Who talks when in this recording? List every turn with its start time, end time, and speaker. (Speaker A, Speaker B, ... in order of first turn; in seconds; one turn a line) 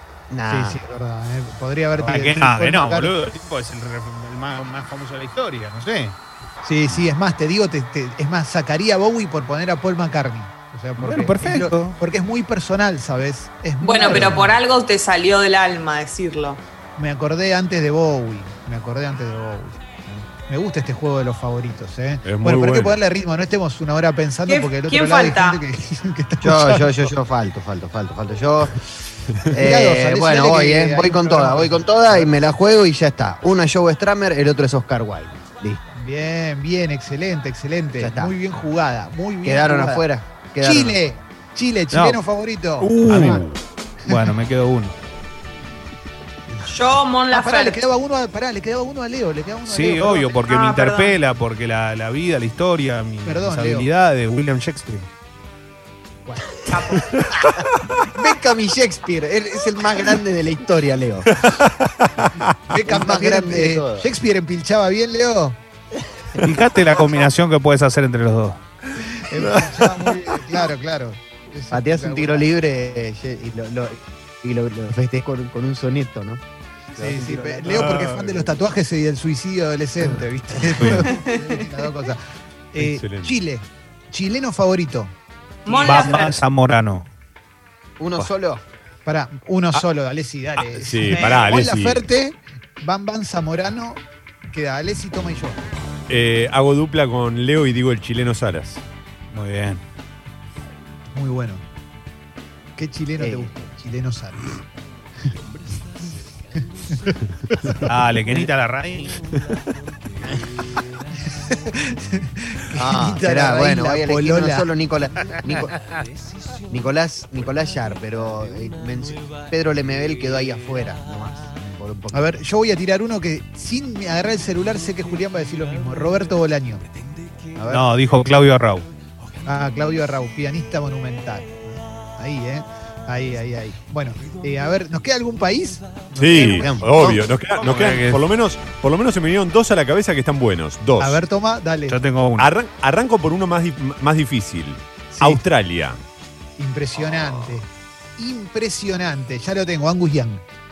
Speaker A: 0.3-0.8
Speaker B: 0.5-3.1
Speaker C: 2.0-6.2
Speaker B: 6.6-14.6
Speaker C: 11.0-12.0
Speaker D: 13.8-16.6
Speaker C: 14.1-14.4
Speaker B: 17.0-27.0
Speaker E: 22.2-23.0
Speaker D: 24.5-25.6
Speaker A: 26.4-35.9
Speaker B: 29.5-32.3
Speaker B: 35.9-40.1
Speaker A: 38.0-38.4
Speaker A: 39.4-41.0
Speaker B: 40.6-43.4
Speaker C: 41.9-42.2
Speaker E: 42.8-43.5
Speaker C: 43.0-43.5
Speaker C: 44.0-45.0
Speaker D: 46.6-47.8
Speaker B: 47.3-50.4
Speaker C: 49.7-55.1
Speaker D: 50.5-51.2
Speaker B: 53.2-53.9
Speaker B: 56.3-56.6
Speaker D: 56.7-57.2
Speaker E: 57.0-57.5
Speaker A: 57.6-61.4
Speaker E: 61.3-62.6
Speaker B: 62.7-65.6
Speaker A: 62.8-64.1
Speaker C: 66.4-68.6
Speaker B: 69.1-72.5
Speaker E: 69.4-70.1
Speaker A: 71.7-76.4
Speaker A: 76.9-78.3
Speaker B: 77.0-82.2
Speaker E: 77.7-78.3
Speaker C: 80.7-81.1
Speaker D: 81.1-81.8
Speaker B: 82.7-85.1
Speaker E: 82.8-83.3
Speaker D: 85.7-86.4
Speaker B: 85.7-86.2
Speaker C: 85.8-87.1
Speaker A: 88.0-88.6
Speaker B: 89.0-95.6
Speaker E: 90.6-92.0
Speaker D: 91.1-91.5
Speaker E: 96.1-98.8
Speaker C: 99.3-99.8
Speaker B: 101.1-101.6
Speaker B: 102.8-104.6
Speaker A: 103.2-103.7
Speaker B: 106.9-107.9
Speaker C: 107.8-109.3
Speaker B: 111.3-114.7
Speaker A: 112.7-115.8
Speaker A: 116.7-122.3
Speaker B: 122.1-126.8
Speaker A: 127.6-127.9
Speaker C: 127.7-128.9
Speaker B: 129.4-136.7
Speaker E: 136.2-141.2
Speaker A: 136.2-137.3
Speaker C: 137.5-138.2
Speaker B: 141.0-142.0
Speaker C: 141.9-142.5
Speaker E: 142.4-146.0
Speaker B: 146.6-150.4